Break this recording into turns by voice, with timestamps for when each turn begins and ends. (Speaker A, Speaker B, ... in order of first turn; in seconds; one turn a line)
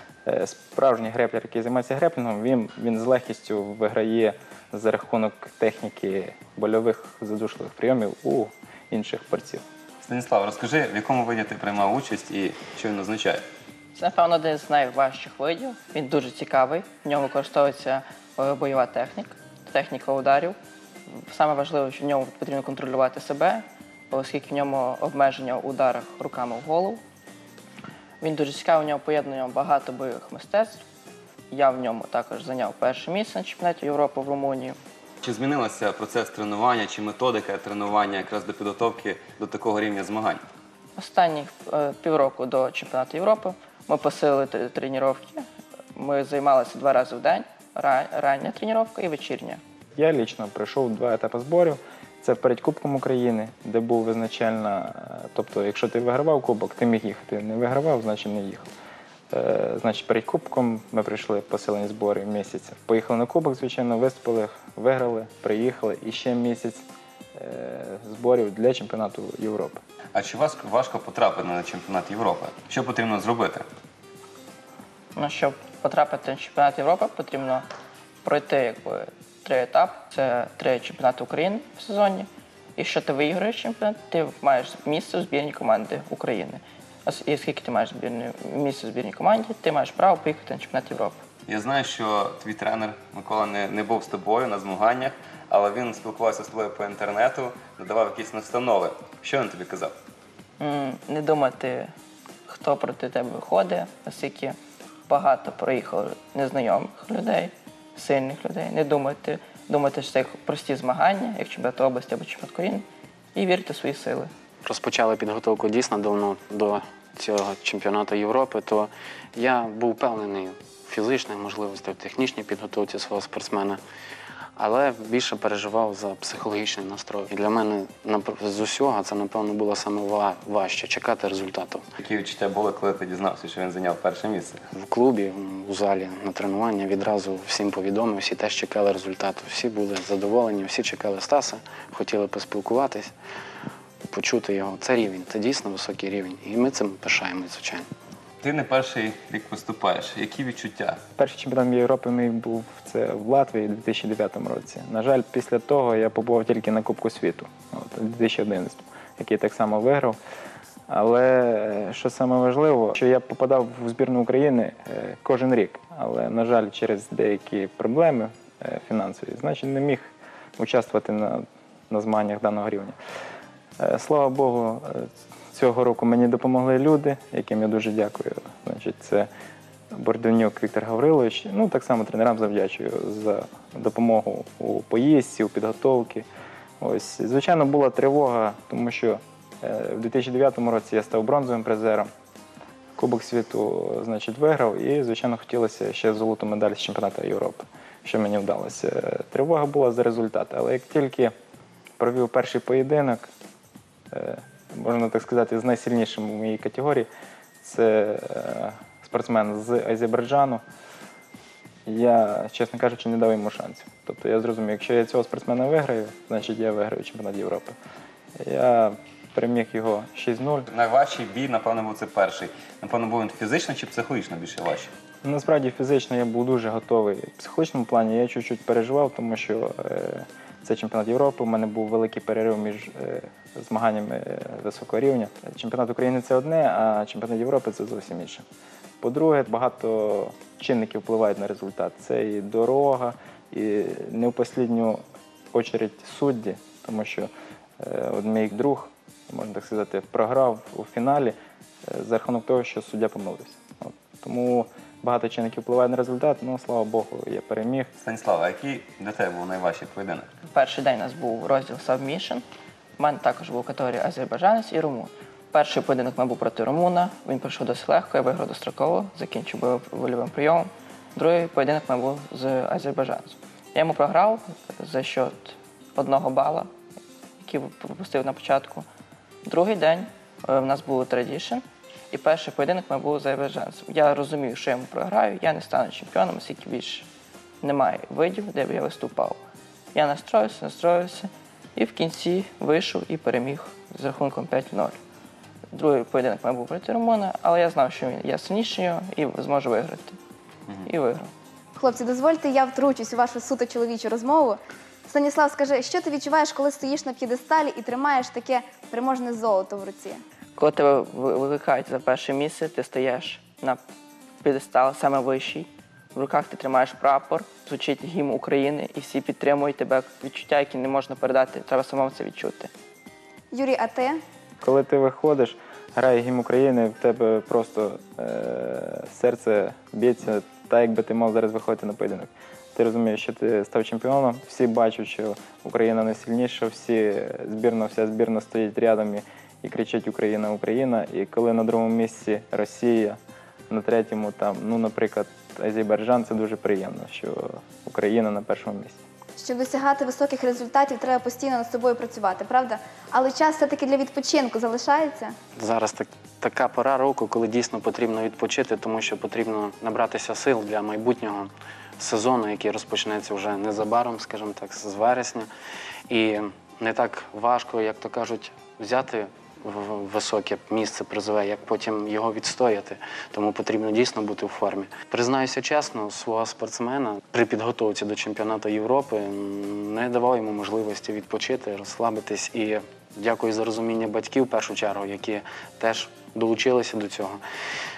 Speaker A: 0.3-9.6
Speaker B: 10.0-13.4
Speaker C: 13.9-20.6
Speaker C: 21.2-27.0
Speaker C: 28.2-30.8
Speaker C: 31.5-34.8
Speaker B: 35.2-40.4
Speaker C: 41.0-49.6
Speaker A: 50.0-58.7
Speaker A: 59.3-69.8
Speaker B: 70.1-73.7
Speaker C: 75.2-77.7
Speaker C: 78.2-91.2
Speaker B: 91.5-100.0
Speaker C: 100.6-101.9
Speaker C: 102.5-104.6
Speaker C: 105.1-114.3
Speaker D: 114.6-123.8
Speaker D: 124.6-131.9
Speaker B: 132.0-134.6
Speaker D: 134.7-143.1
Speaker D: 144.1-147.9
Speaker B: 148.4-151.0
Speaker A: 151.2-160.2
Speaker A: 160.9-173.0
Speaker A: 173.8-179.3
Speaker A: 179.9-186.3
Speaker A: 186.8-192.1
Speaker A: 193.0-201.3
Speaker A: 202.0-203.3
Speaker A: 204.1-207.1
Speaker A: 207.6-210.6
Speaker A: 211.9-217.8
Speaker A: 218.4-220.7
Speaker B: 220.7-224.9
Speaker A: 225.2-238.4
Speaker A: 239.0-245.0
Speaker A: 245.5-251.3
Speaker A: 251.9-257.9
Speaker B: 258.0-260.3
Speaker C: 260.4-262.4
Speaker C: 263.0-276.7
Speaker C: 277.4-278.9
Speaker C: 279.4-287.1
Speaker C: 287.6-289.4
Speaker C: 289.9-295.0
Speaker C: 295.7-300.2
Speaker C: 300.8-301.3
Speaker E: 301.8-310.2
Speaker C: 310.6-313.8
Speaker C: 314.4-322.7
Speaker E: 323.5-324.2
Speaker A: 324.6-349.0
Speaker E: 349.4-355.3
Speaker D: 355.6-365.5
Speaker D: 366.1-387.4